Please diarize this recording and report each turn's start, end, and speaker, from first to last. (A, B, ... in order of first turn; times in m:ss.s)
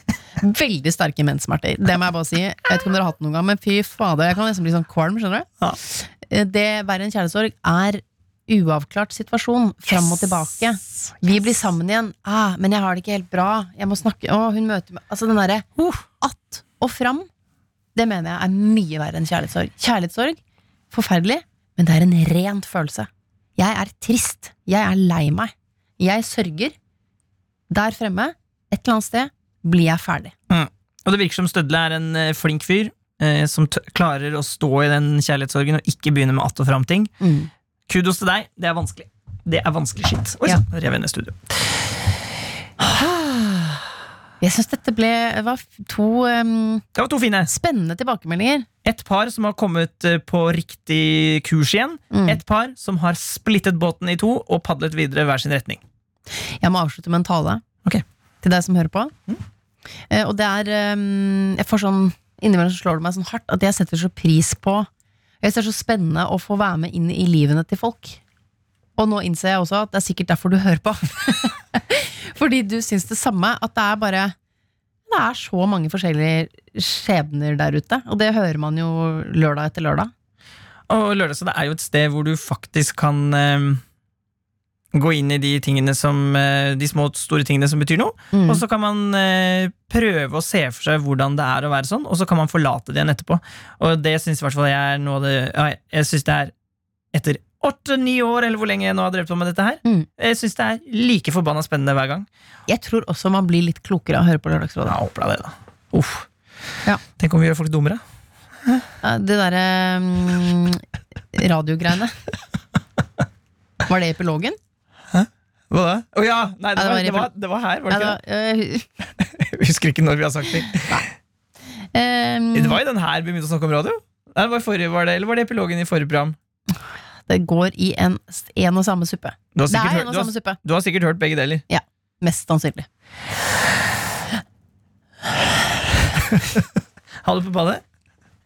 0:00.4-0:15.7 A
0:15.8-0:16.0 B
0:16.2-0:17.3 A
0:17.9-0:20.4 A
0:20.9-0:26.7 A
0:27.7-0:30.3 A
0:30.5-0:37.1 B
0:37.2-0:37.5 A
0:37.9-0:41.9 B
0:42.9-0:43.8 B
0:44.4-0:46.8 A
0:46.9-0:47.5 B
0:47.5-0:48.7 A
0:48.8-0:55.8 B
0:52.1-0:52.4 A
0:56.6-0:57.6 A
0:58.4-0:59.1 A
1:00.1-1:04.9 A
1:05.4-1:08.2 A
1:09.0-1:14.3 A
1:15.1-1:20.1 A
1:20.9-1:23.8 B
1:24.9-1:36.5 B
1:28.3-1:28.6 A
1:37.1-1:42.3 B
1:42.7-1:44.9 A
1:44.8-1:46.3 B
1:47.1-1:48.0 B
1:49.0-1:50.8 A
1:51.3-1:52.2 A
1:53.8-1:54.6 A
1:55.1-1:58.2 B
1:56.8-1:57.3 A
1:57.9-1:58.9 A
1:59.2-2:01.0 B
2:01.9-2:02.8 A
2:02.5-2:06.4 B
2:07.3-2:10.6 A
2:09.5-2:11.6 B
2:11.7-2:12.9 A
2:16.2-2:16.7 B
2:17.2-2:17.8 B